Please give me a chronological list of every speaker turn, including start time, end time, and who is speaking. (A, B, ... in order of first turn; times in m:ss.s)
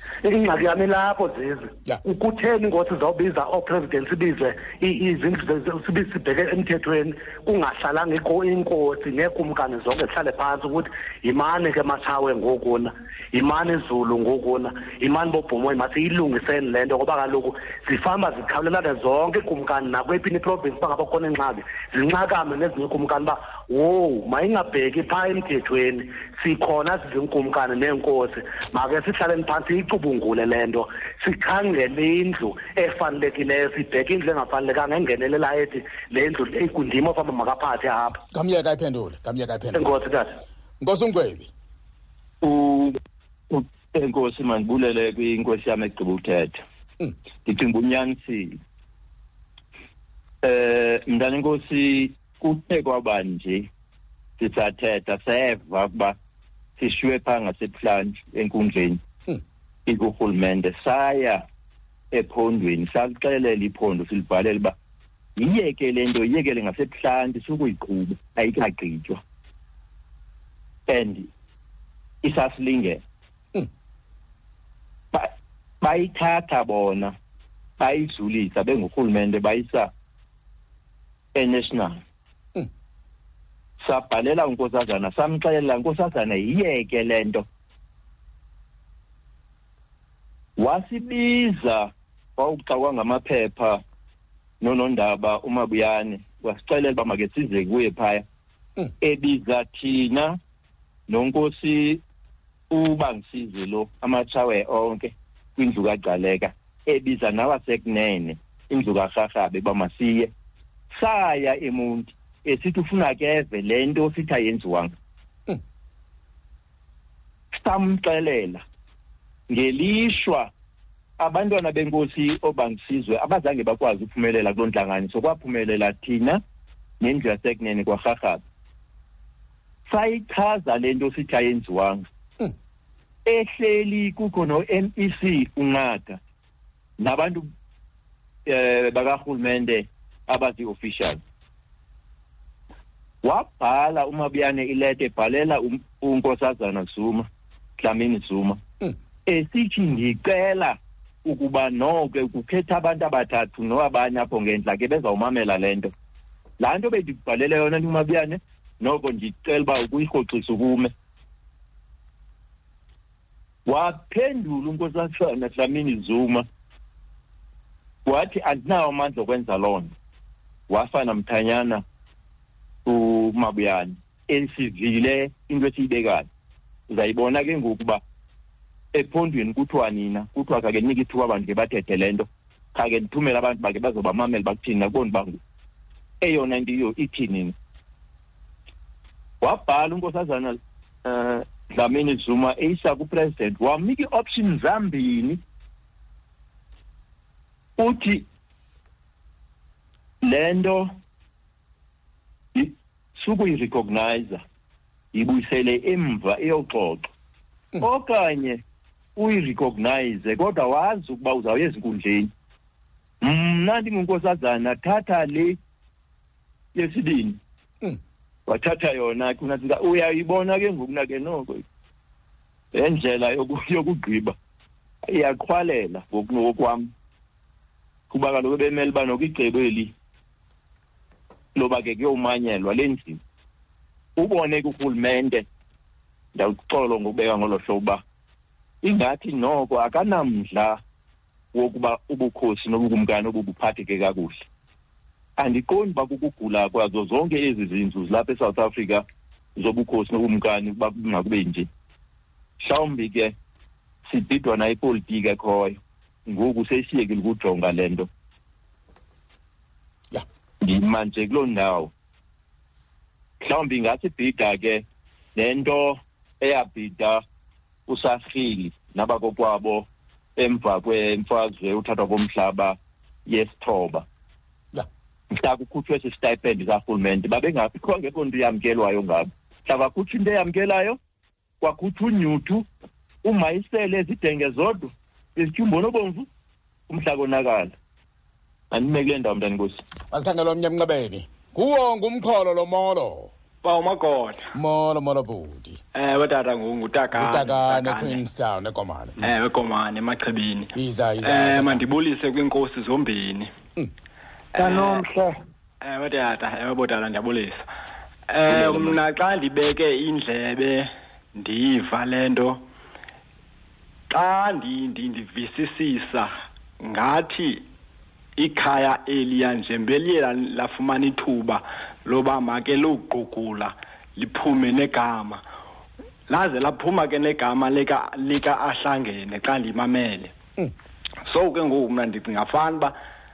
0:00.2-0:38.2 A
0:38.3-0:40.0 B
0:39.7-0:40.3 A
0:40.8-0:41.5 B
0:42.4-0:43.0 C
0:43.5-0:46.6 C
0:47.4-0:48.6 C
0:50.4-0:53.7 C
0:54.4-0:56.2 C
0:56.8-0:59.0 C
0:59.9-1:01.4 C
1:02.1-1:04.8 C
1:05.4-1:09.2 C
1:10.9-1:11.3 C
1:12.2-1:13.0 C
1:15.1-1:17.2 C
1:17.8-1:19.9 C
1:21.4-1:22.0 C
1:23.8-1:27.4 C
1:30.6-1:33.8 C
1:34.6-1:38.2 C
1:39.0-1:40.4 C
1:41.1-1:42.0 C
1:42.7-1:50.3 C
1:50.9-1:54.9 C
1:57.5-1:58.6 C
1:59.5-2:00.5 C
2:01.2-2:06.4 C
2:07.0-2:08.4 C
2:09.9-2:12.1 C
2:13.3-2:16.2 C
2:17.0-2:17.5 C
2:18.5-2:21.2 C
2:23.2-2:27.3 C
2:27.8-2:28.6 C
2:29.3-2:35.9 C
2:36.6-2:40.9 C
2:43.7-2:46.4 C
2:48.1-2:49.9 C
2:50.7-2:51.8 C
2:52.9-2:56.3 C
2:56.9-2:58.0 C
2:58.9-3:05.4 C
3:06.2-3:07.5 C
3:09.4-3:15.4 C
3:17.8-3:18.2 C
3:20.2-3:21.0 C
3:22.6-3:24.4 C
3:25.1-3:27.1 C
3:27.8-3:28.6 C
3:29.2-3:32.3 C
3:33.2-3:35.6 C
3:36.8-3:37.4 C
3:38.5-3:41.6 C
3:42.7-3:44.4 C
3:45.0-3:46.9 C
3:48.1-3:49.9 C
3:51.6-3:53.2 C
3:54.2-3:55.4 C
3:56.4-3:58.0 C
3:58.8-4:00.8 C
4:01.5-4:04.5 C
4:05.4-4:09.0 C
4:09.6-4:11.7 C
4:12.6-4:13.3 C
4:14.1-4:18.1 C
4:20.6-4:21.9 C
4:23.4-4:24.8 C
4:25.4-4:27.2 C
4:27.9-4:29.9 C
4:30.4-4:34.0 C
4:35.3-4:41.0 C
4:41.6-4:42.6 C
4:43.2-4:46.3 C
4:46.9-4:47.7 C
4:48.7-4:49.8 C
4:50.1-4:53.3 B
4:53.6-4:54.5 D
4:54.5-4:55.8 B
4:55.9-4:58.2 D
4:57.1-4:59.3 B
4:59.2-5:03.5 D
5:00.7-5:01.8 B
5:04.5-5:05.1 D
5:05.8-5:07.6 D
5:08.3-5:12.6 D
5:14.1-5:17.7 D
5:18.4-5:25.4 D
5:26.3-5:30.3 D
5:31.2-5:33.0 D